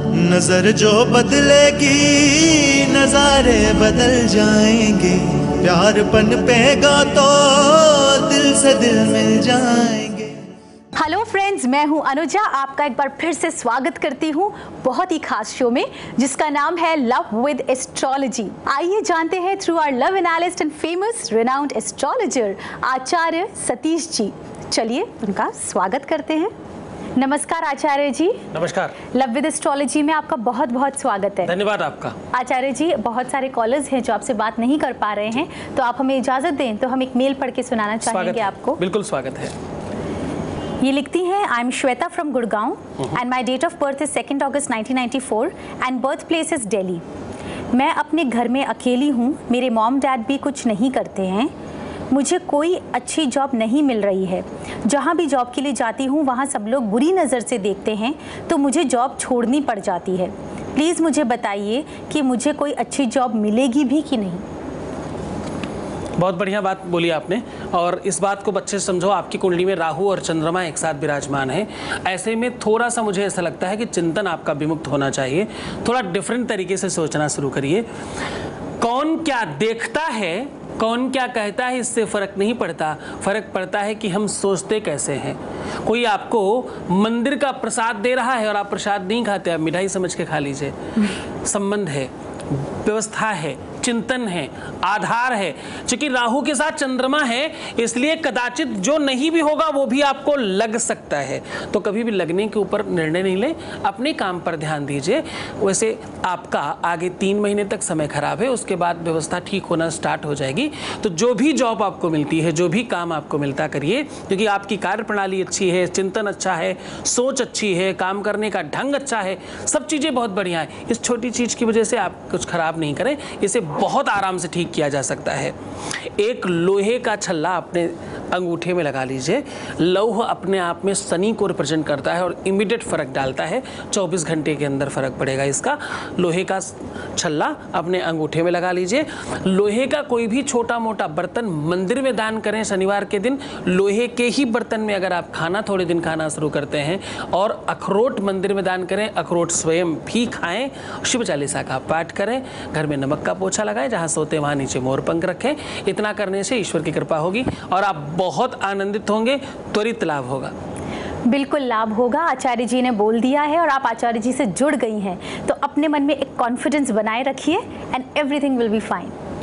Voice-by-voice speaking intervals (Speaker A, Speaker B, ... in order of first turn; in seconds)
Speaker A: 0.2-10.3
Speaker B: 10.9-26.5, 27.2-28.4, 29.1-31.6, 32.3-38.8, 40.8-47.0, 47.7-51.5, 52.1-64.4, 161.3-169.2
Speaker C: 28.5-29.0, 31.4-32.2, 38.1-39.5, 66.2-77.9, 78.8-125.5, 126.2-160.5